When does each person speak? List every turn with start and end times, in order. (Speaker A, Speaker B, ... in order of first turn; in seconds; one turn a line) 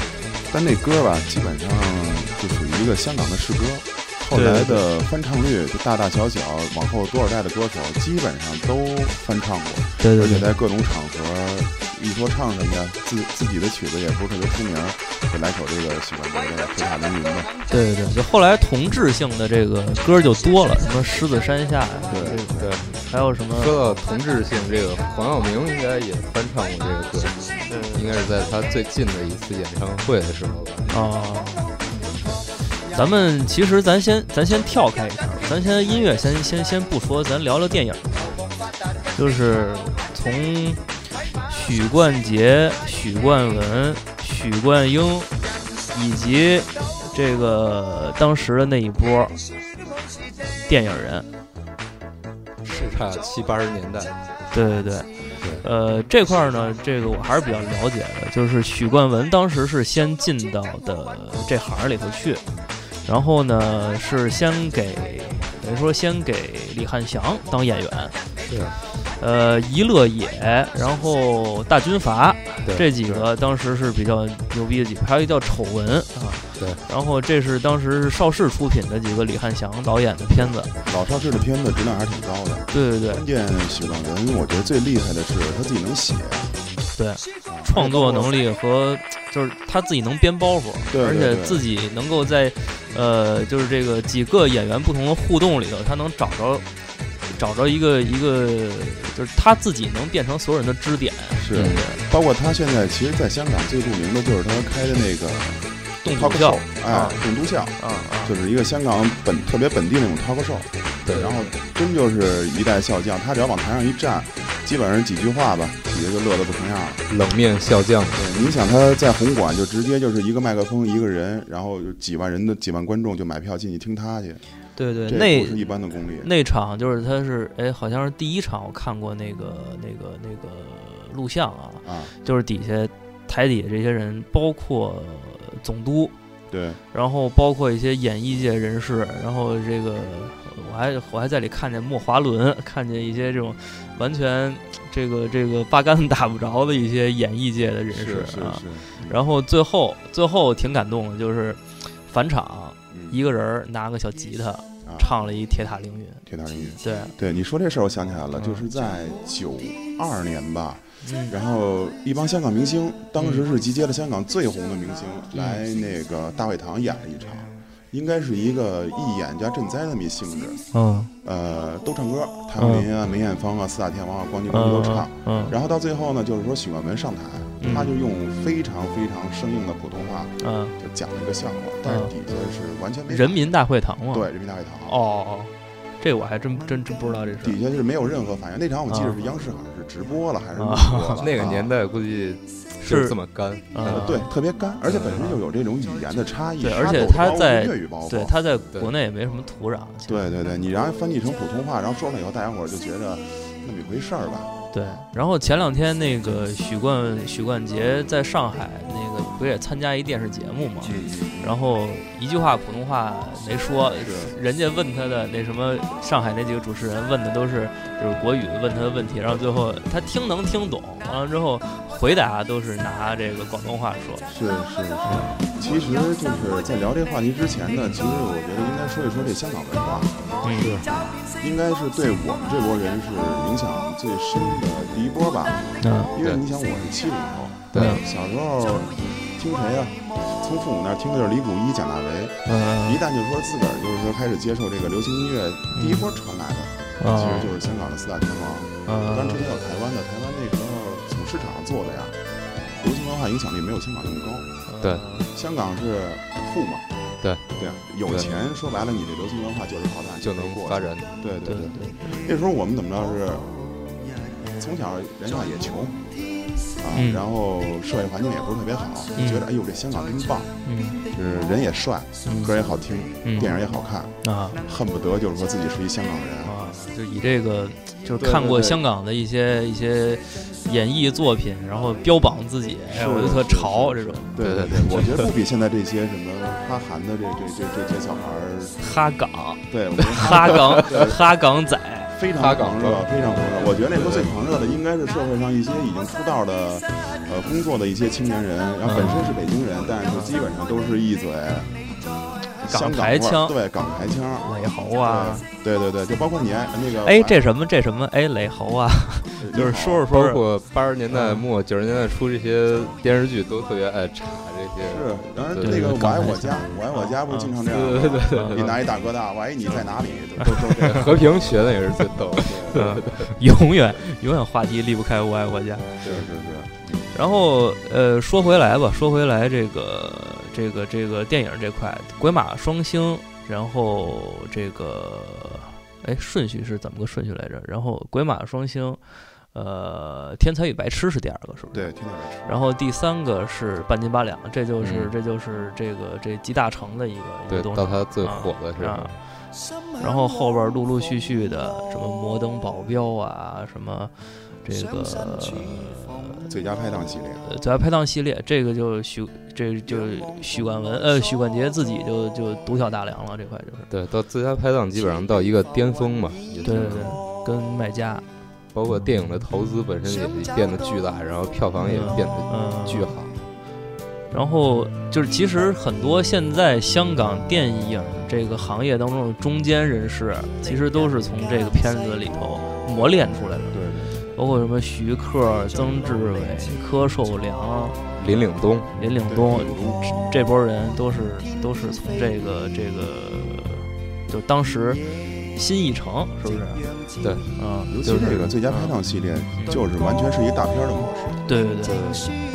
Speaker A: 0.5-17.5
Speaker B: 4.3-4.8
Speaker B: 10.0-10.5
Speaker B: 17.7-23.7
Speaker A: 22.1-22.7
Speaker C: 22.6-30.9
Speaker B: 27.7-28.2
Speaker B: 30.9-31.6
Speaker B: 32.9-38.4
Speaker B: 39.1-40.8
Speaker B: 41.5-45.3
Speaker B: 45.9-49.4
Speaker B: 50.6-51.3
Speaker C: 52.6-54.2
Speaker B: 54.5-62.4
Speaker C: 55.4-55.7
Speaker B: 63.0-68.2
Speaker C: 68.5-68.8
Speaker B: 69.2-80.7
Speaker A: 80.3-86.6
Speaker B: 82.7-83.2
Speaker B: 87.0-96.7
Speaker A: 87.5-88.4
Speaker A: 90.9-91.7
Speaker B: 97.3-102.0
Speaker A: 101.3-117.0
Speaker C: 101.5-101.8
Speaker B: 106.0-107.2
Speaker B: 107.8-108.3
Speaker C: 111.0-111.5
Speaker C: 117.1-118.3
Speaker A: 118.1-124.4
Speaker B: 124.8-125.7
Speaker A: 125.1-126.3
Speaker B: 126.2-136.1
Speaker A: 131.8-132.1
Speaker A: 136.5-136.8
Speaker B: 136.9-156.2
Speaker A: 147.9-149.2
Speaker A: 152.9-153.2
Speaker A: 154.8-155.1
Speaker A: 156.2-170.6
Speaker B: 156.8-157.1
Speaker B: 158.4-158.6
Speaker B: 161.0-161.3
Speaker B: 163.2-163.4
Speaker B: 170.7-171.1
Speaker A: 171.2-183.4
Speaker B: 172.6-172.9
Speaker B: 174.5-175.6
Speaker B: 177.6-177.9
Speaker B: 180.4-180.8
Speaker B: 181.8-182.1
Speaker B: 183.1-184.3
Speaker A: 184.1-184.9
Speaker B: 184.8-187.6
Speaker A: 187.4-191.7
Speaker B: 188.9-189.2
Speaker B: 190.6-191.5
Speaker C: 191.2-193.8
Speaker B: 192.8-193.2
Speaker B: 193.7-194.3
Speaker A: 193.8-198.3
Speaker C: 194.9-195.3
Speaker B: 196.6-200.3
Speaker A: 200.1-205.0
Speaker B: 204.7-224.3
Speaker A: 210.8-211.5
Speaker A: 214.0-214.3
Speaker A: 224.3-230.3
Speaker B: 225.1-225.3
Speaker B: 230.4-230.9
Speaker C: 230.6-230.9
Speaker A: 230.9-252.2
Speaker B: 235.8-236.1
Speaker C: 237.7-238.0
Speaker B: 237.8-238.0
Speaker B: 242.5-243.0
Speaker B: 245.7-246.1
Speaker B: 247.0-247.5
Speaker B: 248.9-249.5
Speaker A: 252.8-254.5
Speaker B: 254.7-255.3
Speaker A: 255.3-256.9
Speaker A: 257.5-263.5
Speaker C: 258.1-258.4
Speaker C: 260.2-261.2
Speaker B: 261.4-262.2
Speaker A: 264.5-266.0
Speaker A: 266.8-270.5
Speaker B: 266.9-267.2
Speaker B: 269.2-269.4
Speaker B: 270.6-271.0
Speaker A: 271.1-276.5
Speaker B: 272.2-272.6
Speaker B: 273.2-273.5
Speaker B: 274.2-274.6
Speaker B: 276.4-284.3
Speaker A: 278.2-278.8
Speaker A: 282.9-288.8
Speaker C: 284.4-285.3
Speaker B: 288.8-292.1
Speaker A: 289.7-291.1
Speaker A: 292.1-301.8
Speaker C: 292.4-294.5
Speaker B: 298.8-299.4
Speaker B: 300.1-300.4
Speaker A: 302.6-307.4
Speaker B: 302.7-303.6
Speaker B: 304.4-305.4
Speaker B: 307.0-310.4
Speaker A: 309.4-310.1
Speaker C: 310.1-316.2
Speaker B: 311.1-311.5
Speaker A: 314.9-321.6
Speaker B: 315.6-317.5
Speaker C: 317.5-318.7
Speaker B: 318.3-318.8
Speaker B: 320.4-321.1
Speaker C: 320.9-323.3
Speaker A: 322.3-322.9
Speaker B: 322.7-326.0
Speaker A: 326.0-327.1
Speaker B: 327.1-339.0
Speaker B: 339.5-341.9
Speaker A: 341.7-342.6
Speaker B: 342.5-349.1
Speaker C: 344.8-345.1
Speaker C: 347.5-349.2
Speaker B: 350.0-356.5
Speaker A: 356.5-357.4
Speaker B: 357.4-363.9
Speaker C: 363.9-367.1
Speaker B: 366.6-368.2
Speaker C: 368.7-373.4
Speaker B: 371.8-373.1
Speaker B: 374.3-383.8
Speaker A: 383.7-384.2
Speaker B: 384.4-388.0
Speaker C: 388.1-388.9
Speaker B: 389.0-396.8
Speaker A: 389.3-390.0
Speaker C: 397.2-397.5
Speaker B: 397.6-398.9
Speaker A: 397.9-402.3
Speaker B: 399.6-399.8
Speaker B: 401.5-402.0
Speaker C: 401.9-402.2